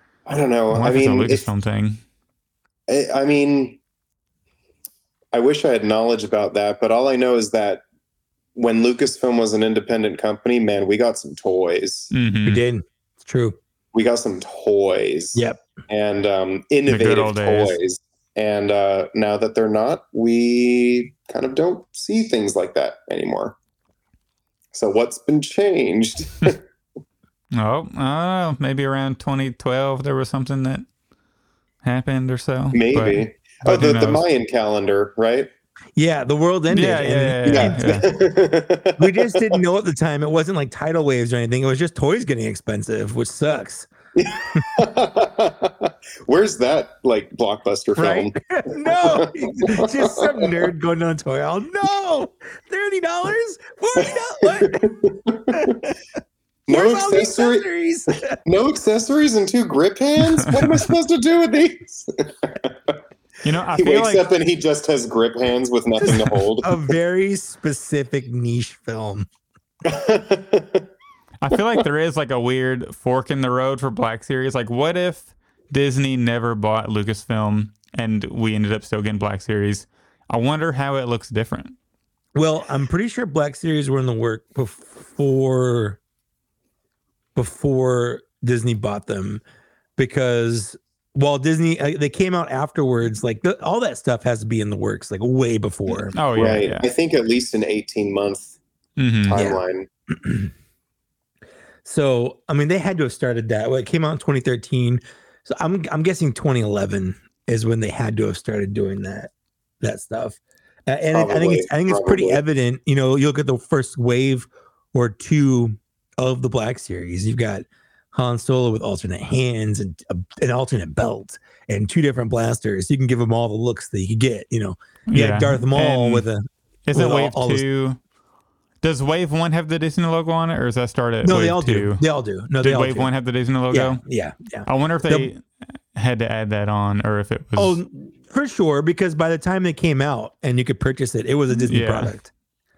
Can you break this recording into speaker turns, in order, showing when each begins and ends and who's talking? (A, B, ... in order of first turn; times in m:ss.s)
0:00.2-0:01.5 A
0:00.7-0:02.0 B
0:02.9-0:03.8 A
0:05.3-0:07.8 A
0:08.5-0:12.1 A
0:12.1-0:12.6 B
0:12.4-0:13.6 C
0:13.9-0:23.6 A
0:15.3-0:15.6 C
0:16.9-0:17.8 B
0:24.7-0:26.6 A
0:27.5-0:30.8 B
0:31.8-0:34.2 B
0:32.7-0:35.5 A
0:36.0-0:37.8 C
0:36.7-0:38.1 B
0:37.4-0:39.6 A
0:39.0-0:43.9 C
0:44.2-0:50.5 A
0:47.9-0:55.9 C
0:54.0-0:55.8 A
0:56.7-0:57.6 A
0:56.7-0:58.4 C
0:58.4-1:03.0 A
1:00.4-1:00.7 B
1:03.4-1:04.3 B
1:03.7-1:06.9 A
1:06.0-1:09.3 C
1:09.8-1:10.9 A
1:11.4-1:21.7 B
1:22.3-1:26.0 C
1:27.4-1:29.4 C
1:30.0-1:36.1 C
1:35.9-1:36.8 B
1:36.3-1:38.6 A
1:39.0-1:39.4 B
1:39.2-1:39.9 A
1:39.3-1:39.6 C
1:40.2-1:40.5 C
1:41.8-2:07.6 C
1:51.1-1:52.4 A
2:05.1-2:06.2 B
2:06.9-2:08.0 B
2:08.8-2:12.0 B
2:11.2-2:13.1 C
2:12.6-2:14.0 B
2:13.7-2:15.3 C
2:14.6-2:15.4 B
2:15.9-2:17.8 B
2:17.6-2:22.3 C
2:21.6-2:22.1 B